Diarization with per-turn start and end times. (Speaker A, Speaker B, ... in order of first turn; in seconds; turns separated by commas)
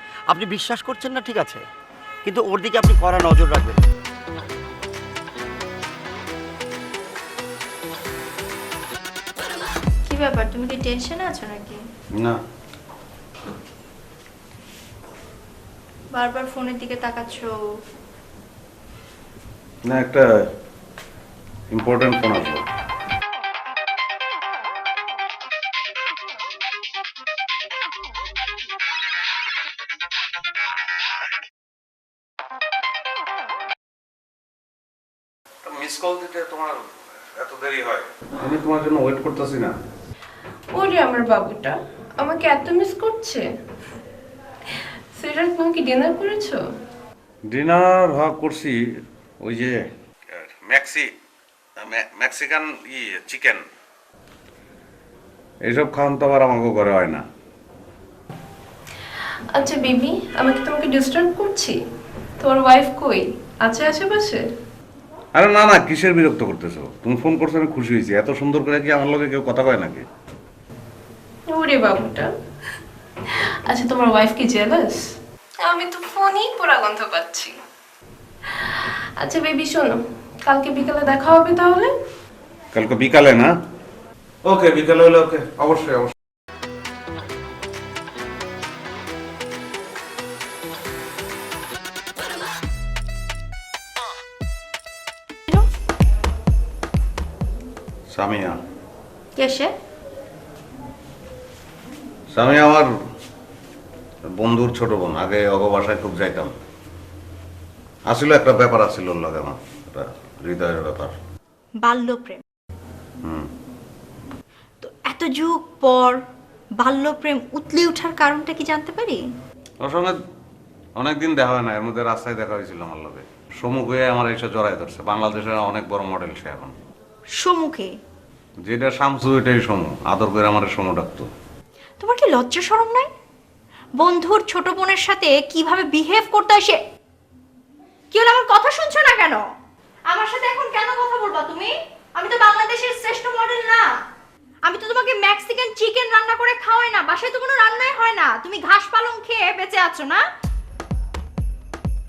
Speaker A: 0.3-1.6, Speaker A: 2.2-3.8, Speaker B: 10.1-11.8, Speaker B: 16.1-17.5, Speaker C: 19.9-20.2, Speaker C: 21.7-22.6, Speaker C: 35.6-36.8, Speaker C: 37.4-39.7, Speaker D: 40.7-43.4, Speaker D: 45.1-46.6, Speaker C: 47.5-48.8, Speaker C: 49.4-49.8, Speaker C: 50.3-51.1, Speaker C: 51.8-53.6, Speaker C: 55.6-57.2, Speaker D: 59.5-61.8, Speaker D: 62.4-64.4, Speaker C: 65.3-70.0, Speaker D: 71.5-72.3, Speaker D: 73.3-75.1, Speaker D: 75.6-77.5, Speaker D: 78.5-81.9, Speaker C: 82.7-83.5, Speaker C: 84.4-86.1, Speaker C: 98.1-98.6, Speaker B: 99.4-99.7, Speaker C: 102.3-102.9, Speaker C: 104.3-106.5, Speaker C: 108.1-111.1, Speaker B: 111.8-112.4, Speaker B: 114.8-116.2, Speaker B: 116.8-119.2, Speaker C: 119.8-120.1, Speaker C: 121.0-126.7, Speaker B: 127.3-128.0, Speaker C: 128.6-131.3, Speaker B: 132.0-133.1, Speaker B: 134.0-136.8, Speaker B: 138.1-139.4, Speaker B: 140.1-143.9, Speaker B: 144.6-150.2